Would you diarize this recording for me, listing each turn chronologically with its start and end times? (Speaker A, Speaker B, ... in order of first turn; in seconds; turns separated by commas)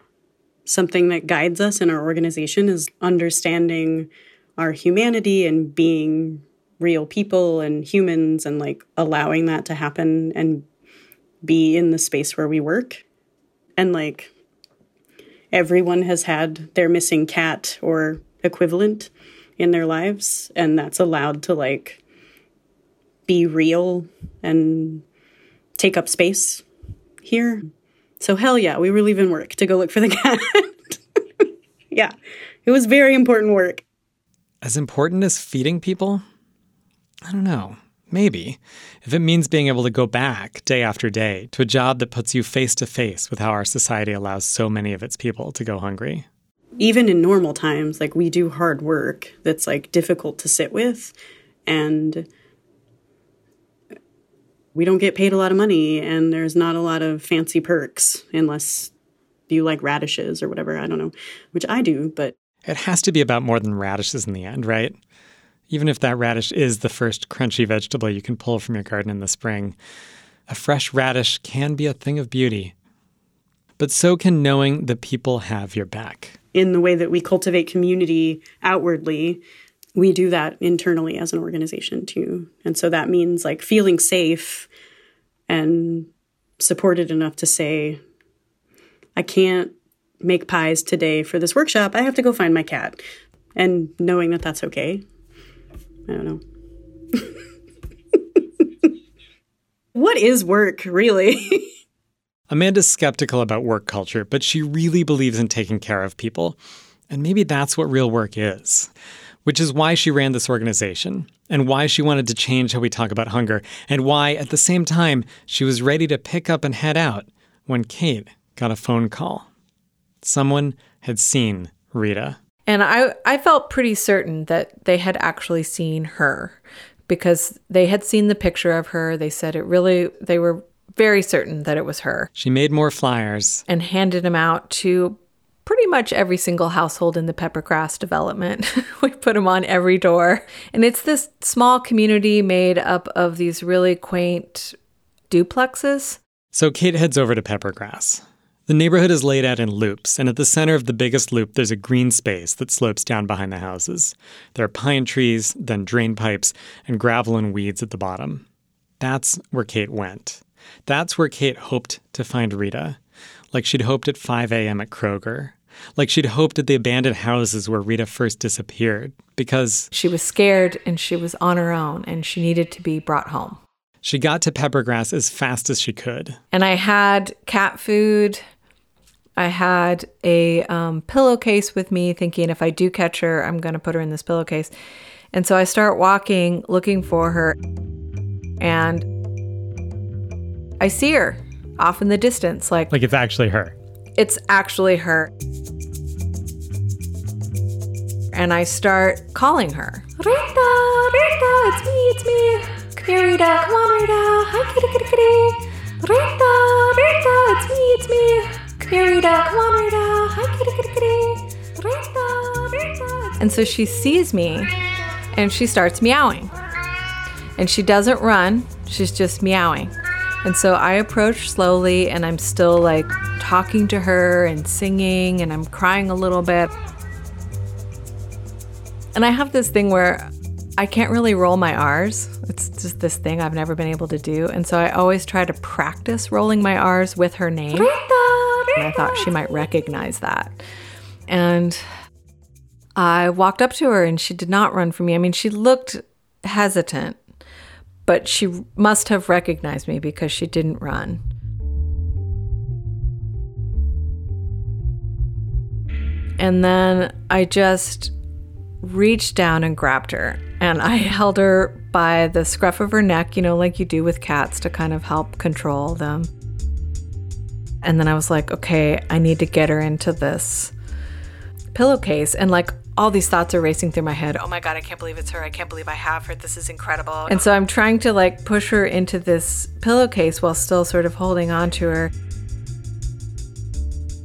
Speaker A: 0.7-10.7, Speaker A: 11.4-13.0, Speaker A: 13.8-14.3, Speaker A: 15.5-22.0, Speaker A: 23.3-25.0, Speaker A: 25.8-26.6, Speaker A: 27.2-27.7, Speaker A: 28.2-32.1, Speaker A: 32.6-33.8, Speaker B: 34.6-36.2, Speaker B: 37.2-46.3, Speaker A: 46.8-51.1, Speaker A: 51.7-52.3, Speaker A: 54.7-58.9, Speaker A: 59.5-62.3, Speaker B: 62.6-65.0, Speaker B: 65.7-69.8, Speaker B: 70.5-72.7, Speaker B: 73.8-76.4, Speaker A: 76.5-79.4, Speaker A: 80.0-84.7, Speaker A: 85.5-88.0, Speaker A: 89.2-93.0, Speaker A: 93.5-95.0, Speaker A: 96.1-96.4, Speaker A: 98.4-98.9, Speaker A: 100.0-101.7, Speaker B: 102.5-106.6, Speaker B: 107.1-108.9, Speaker B: 109.5-119.5, Speaker B: 120.2-122.4, Speaker C: 122.7-132.3, Speaker B: 132.4-133.6, Speaker C: 133.7-144.8, Speaker C: 145.3-146.2, Speaker B: 146.5-158.4, Speaker B: 159.0-163.0, Speaker B: 163.5-169.9, Speaker C: 169.9-173.6, Speaker B: 174.0-176.4, Speaker C: 176.5-178.4, Speaker C: 179.4-184.7, Speaker C: 185.3-187.6, Speaker C: 188.6-189.1, Speaker C: 190.8-192.9, Speaker B: 192.9-193.8, Speaker C: 194.2-195.3, Speaker C: 198.3-214.8, Speaker C: 215.3-216.5, Speaker C: 217.6-226.7, Speaker C: 229.2-240.6, Speaker C: 241.3-241.8, Speaker C: 243.0-247.2, Speaker C: 248.1-251.2, Speaker C: 256.4-258.1, Speaker C: 258.8-266.3, Speaker C: 267.8-270.7, Speaker C: 271.7-282.1